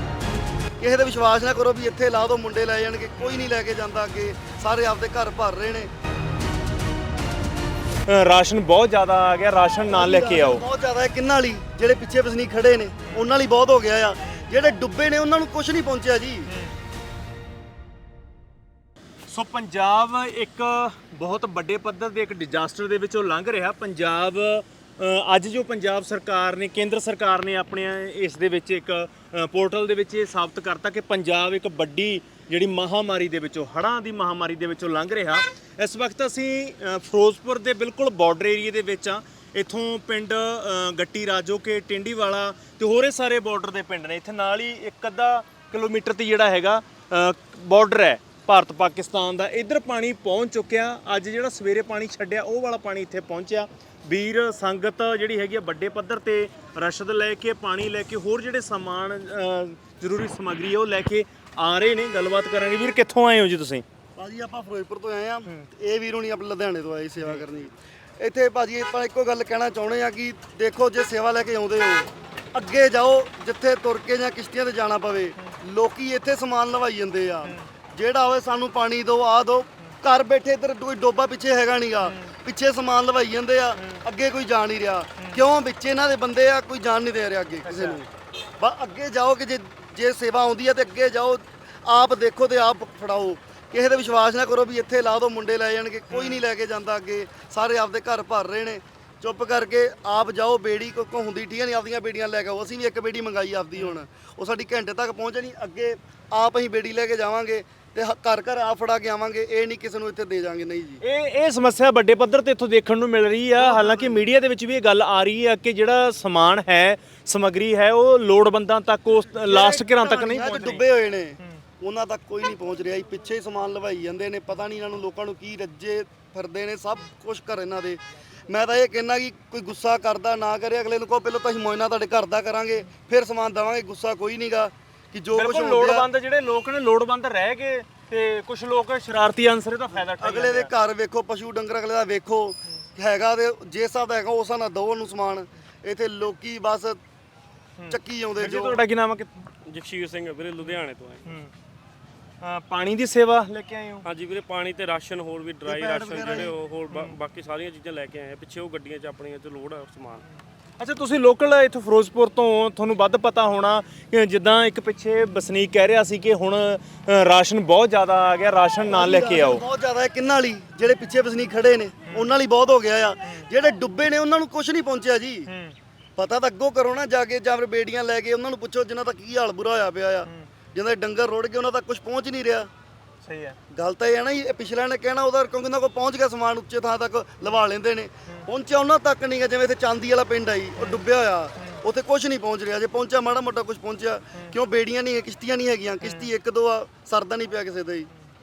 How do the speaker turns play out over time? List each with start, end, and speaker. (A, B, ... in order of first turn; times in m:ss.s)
0:00.8-0:05.9 A
0:08.1-0:10.6 B
0:09.9-0:16.5 A
0:19.3-1:03.8 B
1:04.2-1:28.1 A
1:22.0-1:22.3 B
1:23.8-1:24.0 B
1:27.6-1:28.0 B
1:28.6-1:51.0 A
1:36.1-1:36.4 B
1:51.0-2:00.8 B
1:53.6-1:54.2 A
1:59.4-2:16.1 A
2:15.3-2:20.7 B
2:20.2-2:27.0 A
2:27.8-2:29.4 B
2:27.9-2:28.8 A
2:29.6-2:31.3 C
2:31.2-2:31.5 B
2:32.4-2:34.0 B
2:34.0-2:40.2 C
2:35.6-2:36.5 A
2:40.8-2:49.6 B
2:48.9-2:55.5 A
2:55.5-2:55.8 B
2:56.2-3:02.7 A
3:03.2-3:03.6 B
3:03.7-3:18.1 A
3:10.8-3:11.0 B
3:16.0-3:16.3 B